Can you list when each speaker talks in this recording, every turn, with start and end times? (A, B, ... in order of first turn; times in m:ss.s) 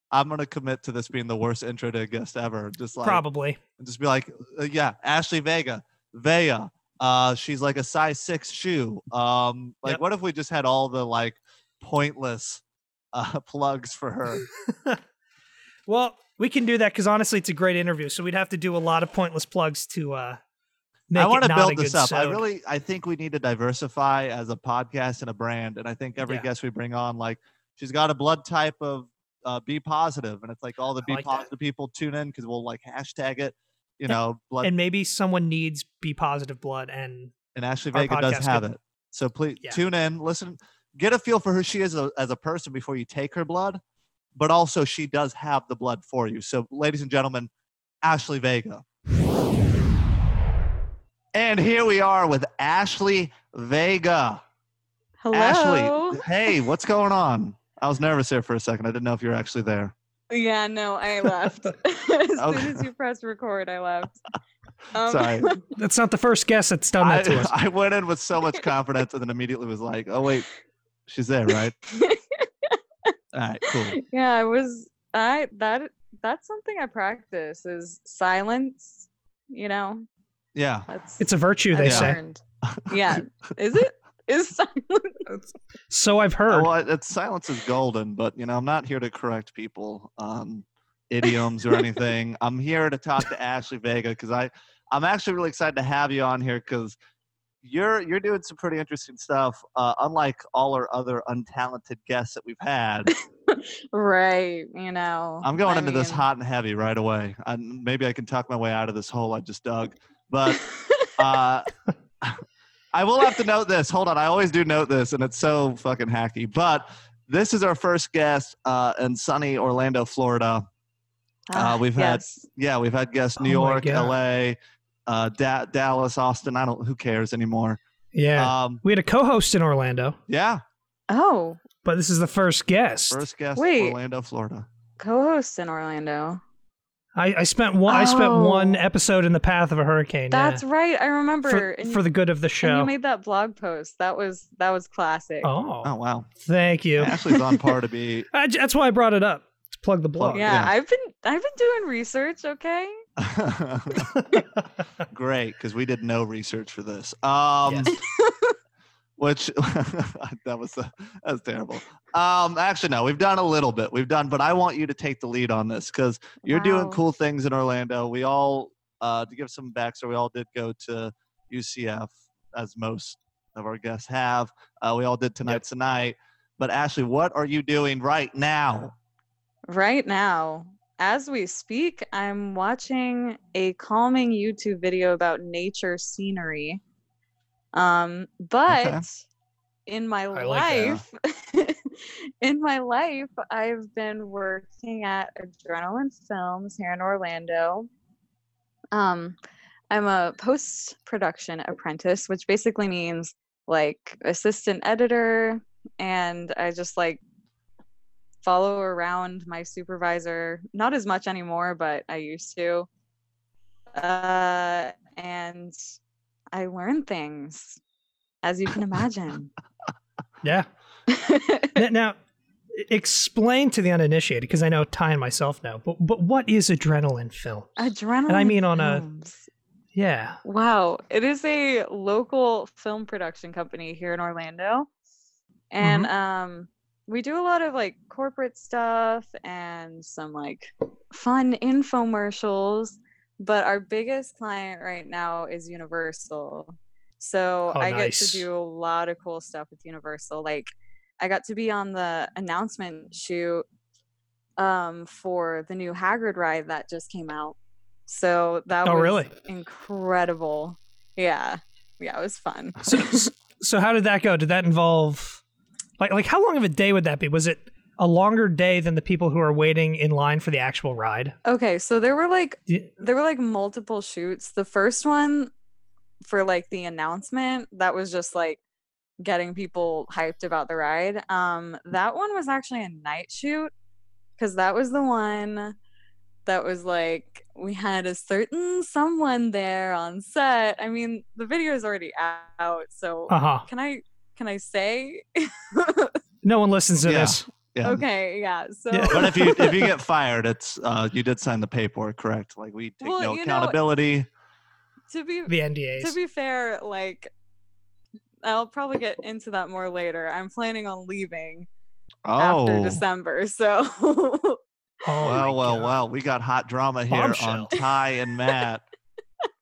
0:00.1-0:03.2 A
0:03.0-0:03.6 B
0:03.8-0:12.6 A
0:13.1-0:14.5 A
0:14.5-0:15.0 B
0:15.9-0:20.4 B
0:21.1-0:22.4 B
0:21.1-0:34.7 A
0:26.2-0:26.5 B
0:31.0-0:31.5 B
0:34.1-0:37.3 B
0:37.5-0:43.8 A
0:37.9-0:38.6 B
0:44.4-0:47.5 A
0:48.0-0:48.8 A
0:51.3-0:54.4 A
0:55.2-0:56.3 C
0:55.3-0:59.9 A
1:00.3-1:04.2 C
1:02.4-1:02.8 A
1:04.9-1:05.6 C
1:05.0-1:05.6 A
1:05.8-1:07.5 B
1:07.0-1:10.5 A
1:11.1-1:11.7 A
1:11.9-1:13.1 C
1:13.3-1:14.0 A
1:14.0-1:20.0 C
1:20.5-1:20.9 A
1:20.9-1:25.2 C
1:21.2-1:22.2 B
1:21.8-1:22.9 A
1:25.3-1:26.7 B
1:26.5-1:37.0 A
1:37.6-1:43.1 A
1:43.5-1:46.2 C
1:45.4-1:50.6 A
1:50.6-1:51.1 C
1:51.2-1:52.4 A
1:52.9-2:00.7 A
2:01.5-2:02.4 C
2:01.5-2:07.8 A
2:03.4-2:04.2 B
2:08.1-2:10.2 B
2:08.4-2:08.8 A
2:10.3-2:10.6 A
2:11.1-2:11.6 C
2:11.8-2:13.2 B
2:13.1-2:14.7 A
2:13.6-2:14.0 C
2:15.0-2:16.4 C
2:17.2-2:20.6 B
2:17.9-2:18.8 C
2:20.3-2:22.0 C
2:21.5-2:22.9 B
2:22.6-2:25.5 C
2:25.4-2:27.6 B
2:25.8-2:26.3 A
2:27.0-2:28.3 A
2:28.3-2:30.5 B
2:30.2-2:30.7 A
2:30.3-2:33.0 C
2:33.2-2:34.1 A
2:34.1-2:34.6 B
2:35.1-2:37.9 A
2:37.6-2:37.9 B
2:37.9-2:38.5 C
2:39.2-2:58.9 A
2:46.4-2:47.0 C
2:59.7-3:06.8 C
3:07.7-3:09.2 C
3:08.7-3:09.0 A
3:09.9-3:17.9 C
3:10.3-3:11.0 B
3:18.9-3:19.4 C
3:19.9-3:27.2 C
3:28.4-3:32.9 C
3:33.9-3:35.8 C
3:36.5-3:37.8 C
3:38.4-3:39.5 C
3:40.4-3:40.7 B
3:41.1-3:41.8 C
3:41.8-3:42.2 B
3:42.7-3:49.0 B
3:47.8-3:49.5 C
3:49.9-3:50.4 B
3:50.4-3:54.9 C
3:55.7-4:10.7 C
3:55.8-3:56.1 B
4:07.7-4:08.5 B
4:11.2-4:13.6 C
4:14.6-4:17.6 C
4:18.1-4:23.3 C
4:18.8-4:19.3 B
4:22.9-4:25.4 B
4:26.0-4:31.4 B
4:31.4-4:35.5 C
4:36.3-4:38.6 C
4:39.2-4:43.7 C
4:44.4-4:45.8 C
4:46.4-4:56.2 C
4:53.3-4:53.7 B
4:56.4-4:57.4 B
4:57.0-4:58.0 A
4:57.8-4:59.9 C
4:58.9-4:59.8 B
4:59.1-5:04.3 A
5:03.0-5:03.8 C
5:05.1-5:07.3 C
5:05.5-5:06.2 B
5:08.4-5:11.7 C
5:12.2-5:13.0 A
5:12.4-5:15.4 C
5:15.0-5:16.0 B
5:15.2-5:18.8 A
5:17.1-5:17.7 B